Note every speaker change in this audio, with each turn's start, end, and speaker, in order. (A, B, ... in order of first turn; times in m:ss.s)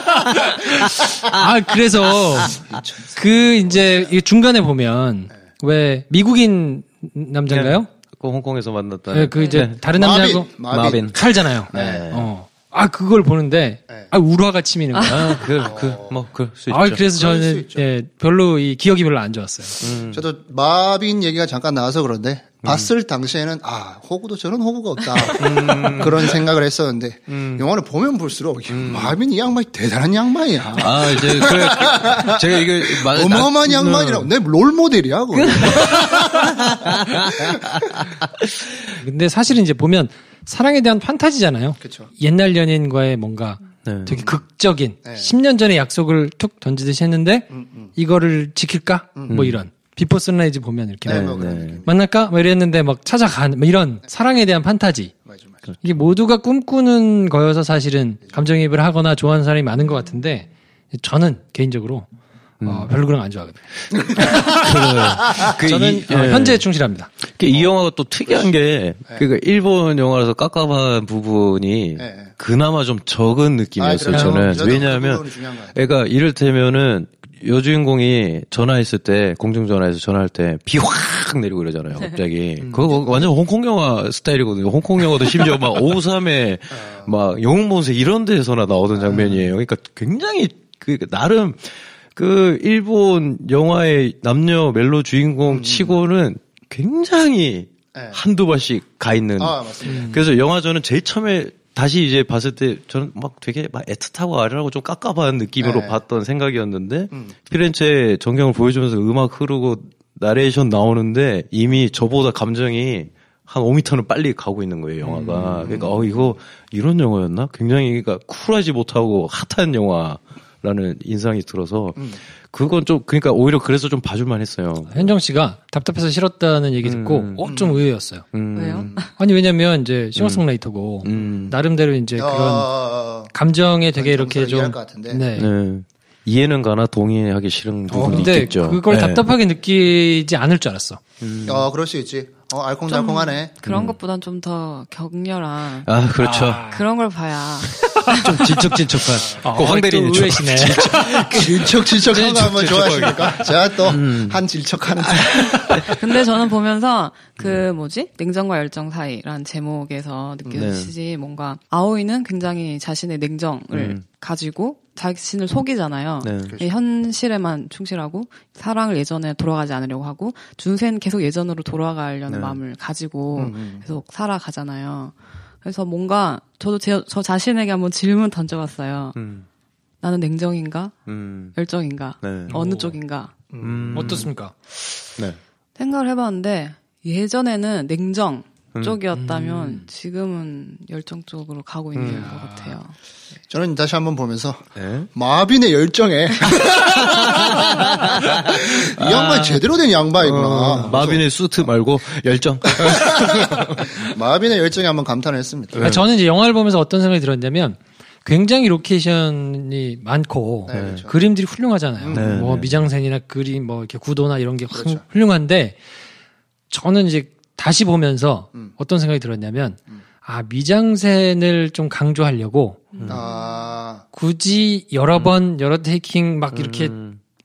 0:00.8-0:02.6 A
0:02.4-0:04.1 B
0:03.1-0:07.9 A
0:07.5-0:09.8 C
0:09.1-0:10.5 A
0:09.3-0:09.6 D
0:09.9-0:11.1 B
0:10.7-0:11.2 C
0:11.1-0:15.4 A
0:11.7-0:12.1 B
0:11.7-0:12.3 C
0:14.9-0:15.3 D
0:15.1-0:17.1 C
0:15.6-0:16.2 B
0:16.7-0:19.8 A
0:17.1-0:17.9 B
0:19.8-0:20.2 C
0:20.1-0:38.1 B
0:25.3-0:26.4 C
0:27.3-0:27.6 C
0:28.7-0:29.2 C
0:30.7-0:34.3 C
0:35.3-0:38.7 C
0:39.0-0:55.1 A
0:41.8-0:42.1 B
0:43.8-0:44.3 C
0:44.1-0:44.4 B
0:45.0-0:45.3 B
0:47.5-0:47.9 B
0:49.3-0:49.6 C
0:51.0-0:52.0 B
0:51.1-0:51.8 C
0:55.3-0:55.6 B
0:55.8-1:02.1 A
1:02.6-1:02.9 C
1:02.6-1:03.6 A
1:03.9-1:04.7 B
1:04.2-1:06.6 C
1:05.4-1:07.1 A
1:07.3-2:05.1 C
1:08.3-1:08.5 B
1:12.0-1:12.3 B
1:13.8-1:15.8 B
1:14.1-1:14.5 A
1:22.7-1:23.3 B
1:26.8-1:27.1 B
1:29.0-1:29.5 B
1:35.5-1:35.9 B
1:39.4-1:40.2 B
1:39.8-1:40.2 A
1:45.6-1:46.0 B
1:55.1-1:56.2 B
2:04.9-2:08.2 A
2:06.8-2:07.5 C
2:07.4-2:07.8 B
2:08.3-2:08.9 C
2:08.5-2:09.1 D
2:08.8-2:09.0 B
2:09.2-2:12.7 A
2:10.2-2:10.4 C
2:11.0-2:11.5 C
2:11.2-2:11.4 B
2:12.2-2:13.3 B
2:13.3-2:15.5 A
2:13.9-2:15.2 B
2:15.4-2:19.2 C
2:17.9-2:21.0 A
2:21.2-2:21.7 C
2:21.4-2:23.6 B
2:22.9-2:25.9 D
2:23.6-2:24.0 C
2:25.8-2:26.7 C
2:26.2-2:26.8 A
2:26.6-2:28.6 D
2:27.7-2:34.4 C
2:29.4-2:31.2 A
2:30.8-2:35.9 B
2:35.0-2:36.0 C
2:35.8-2:59.2 D
2:40.4-2:40.7 B
2:40.6-2:40.9 C
2:43.7-2:44.0 C
2:46.2-2:46.5 C
2:52.3-2:52.6 C
2:53.4-2:53.8 B
2:59.2-2:59.5 C
3:00.0-3:01.0 D
3:01.1-3:01.6 C
3:01.6-3:03.3 D
3:02.2-3:02.6 C
3:02.5-3:03.0 A
3:03.5-3:04.3 B
3:03.6-3:04.3 C
3:03.9-3:04.5 A
3:05.8-3:13.0 D
3:08.7-3:09.0 C
3:09.1-3:09.9 A
3:11.9-3:12.3 C
3:12.0-3:12.8 A
3:13.5-3:21.2 B
3:14.8-3:15.1 C
3:16.5-3:19.6 C
3:20.2-3:24.0 C
3:22.7-3:25.9 B
3:25.7-3:26.0 C
3:25.8-3:35.8 A
3:30.7-3:31.2 B
3:30.7-3:31.0 C
3:32.0-3:32.5 B
3:32.1-3:32.8 C
3:34.7-3:35.0 B
3:36.7-3:42.9 A
3:43.0-3:43.5 D
3:43.0-3:43.2 C
3:43.1-3:44.0 B
3:44.1-3:47.0 A
3:46.5-3:47.2 C